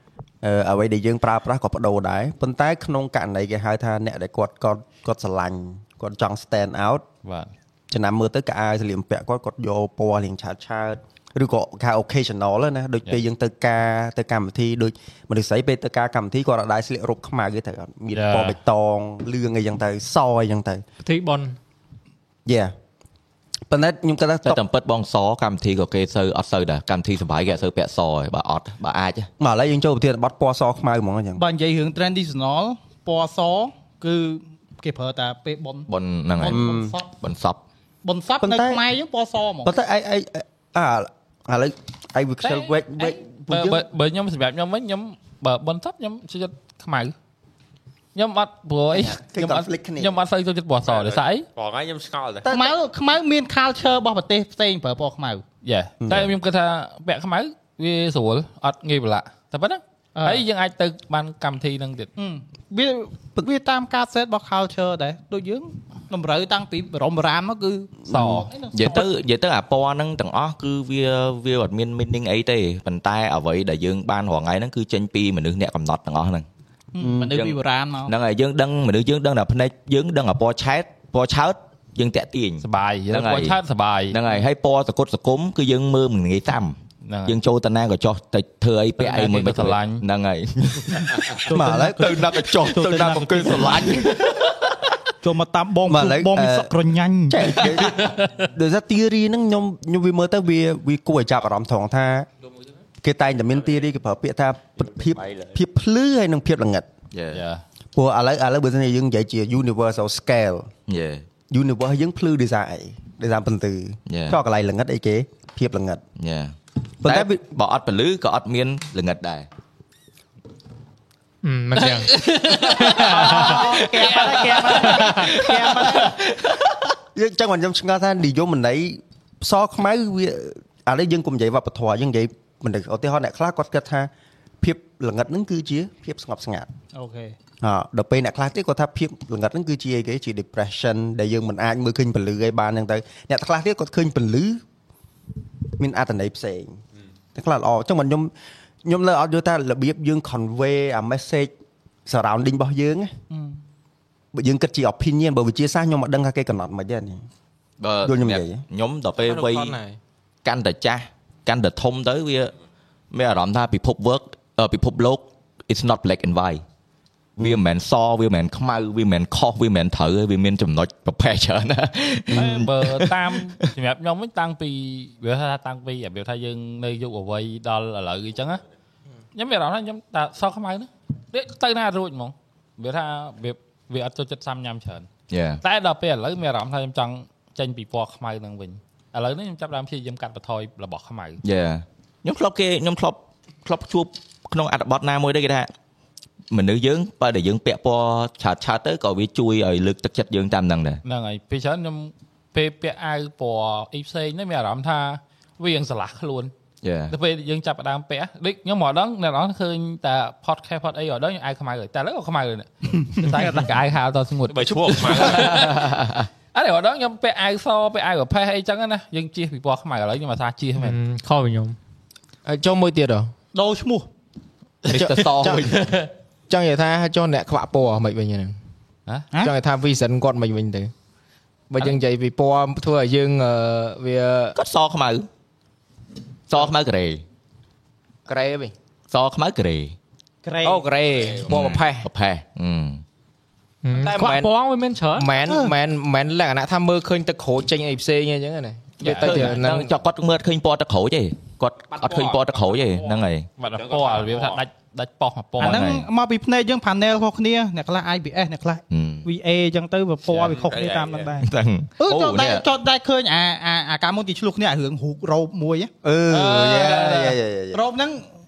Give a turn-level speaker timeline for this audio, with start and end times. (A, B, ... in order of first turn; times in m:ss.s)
0:00.4-0:07.0 A
0:07.2-0:07.5 B
0:07.9-0:20.8 A
0:18.1-0:18.6 B
0:21.0-0:21.6 C
0:22.5-0:22.7 A
0:23.7-0:24.6 A
0:24.5-0:29.3 D
0:29.4-0:31.4 A
0:31.4-0:37.1 E
0:35.9-0:36.6 D
0:36.4-0:37.0 A
0:37.2-0:37.6 D
0:38.0-0:39.7 E
0:38.4-0:38.8 A
0:39.6-0:43.9 A
0:42.4-0:47.1 B
0:48.2-0:51.5 B
0:48.9-0:50.1 A
0:50.8-0:52.5 F
0:52.4-0:52.7 A
0:52.5-0:55.4 E
0:55.6-1:02.1 B
0:56.0-0:56.3 A
1:00.2-1:00.4 E
1:02.2-1:09.1 E
1:08.1-1:08.5 B
1:08.7-1:16.5 D
1:16.9-1:18.1 E
1:17.0-1:17.3 A
1:17.3-1:23.6 D
1:22.6-1:24.2 B
1:24.1-1:31.5 D
1:27.0-1:27.4 B
1:29.0-1:30.0 B
1:31.5-1:33.9 E
1:31.5-1:32.2 A
1:32.0-1:34.8 D
1:35.2-1:37.6 E
1:35.9-1:36.7 A
1:37.3-1:42.3 A
1:37.8-1:38.4 B
1:43.0-1:46.9 A
1:45.0-1:45.6 F
1:47.1-1:47.4 D
1:47.3-1:47.6 B
1:48.0-1:50.7 A
1:50.9-1:51.2 D
1:51.5-1:56.0 A
1:54.1-1:54.4 D
1:56.2-1:59.5 D
1:57.0-1:57.4 A
2:01.4-2:03.4 C
2:01.8-2:05.3 B
2:02.8-2:06.2 E
2:03.6-2:06.1 D
2:07.2-2:16.7 A
2:16.9-2:17.4 E
2:17.6-2:24.6 A
2:25.8-2:26.8 A
2:27.4-2:28.3 A
2:28.8-2:31.5 A
2:32.1-2:33.1 A
2:33.3-2:33.6 E
2:34.3-2:37.2 A
2:37.8-2:39.8 D
2:38.0-2:38.6 A
2:39.2-2:39.9 G
2:40.4-2:42.5 D
2:43.1-2:46.6 D
2:47.4-2:53.7 D
2:52.3-2:52.7 E
2:52.5-2:58.6 B
2:59.4-3:05.1 B
3:05.3-3:05.6 D
3:05.6-3:11.4 B
3:11.4-3:15.7 D
3:16.5-3:21.0 D
3:21.0-3:26.5 B
3:26.8-3:27.2 D
3:27.1-3:35.9 B
3:34.5-3:35.7 F
3:35.2-3:36.3 D
3:36.5-3:41.0 B
3:40.8-3:41.8 C
3:42.4-3:43.3 G
3:43.5-3:44.1 E
3:44.9-3:46.0 D
3:44.9-3:45.7 G
3:46.5-3:48.6 G
3:49.1-3:49.3 B
3:49.4-3:50.9 G
3:51.7-3:54.6 G
3:54.6-3:55.3 D
3:56.5-3:57.2 D
3:58.3-3:58.7 G
3:59.1-4:00.0 D
4:00.4-4:00.9 E
4:00.6-4:02.1 G
4:01.1-4:01.6 F
4:01.5-4:03.0 D
4:03.8-4:05.3 C
4:03.9-4:04.5 G
4:05.2-4:09.9 G
4:05.5-4:05.7 E
4:09.0-4:09.6 B
4:09.0-4:13.5 D
4:12.0-4:13.1 F
4:13.6-4:15.9 B
4:13.6-4:14.6 F
4:15.6-4:16.1 D
4:15.6-4:21.5 E
4:18.9-4:19.3 D
4:20.3-4:21.3 F
4:21.4-4:22.6 D
4:22.0-4:25.9 E
4:26.0-4:27.8 A
4:26.3-4:27.4 B
4:27.7-4:28.3 E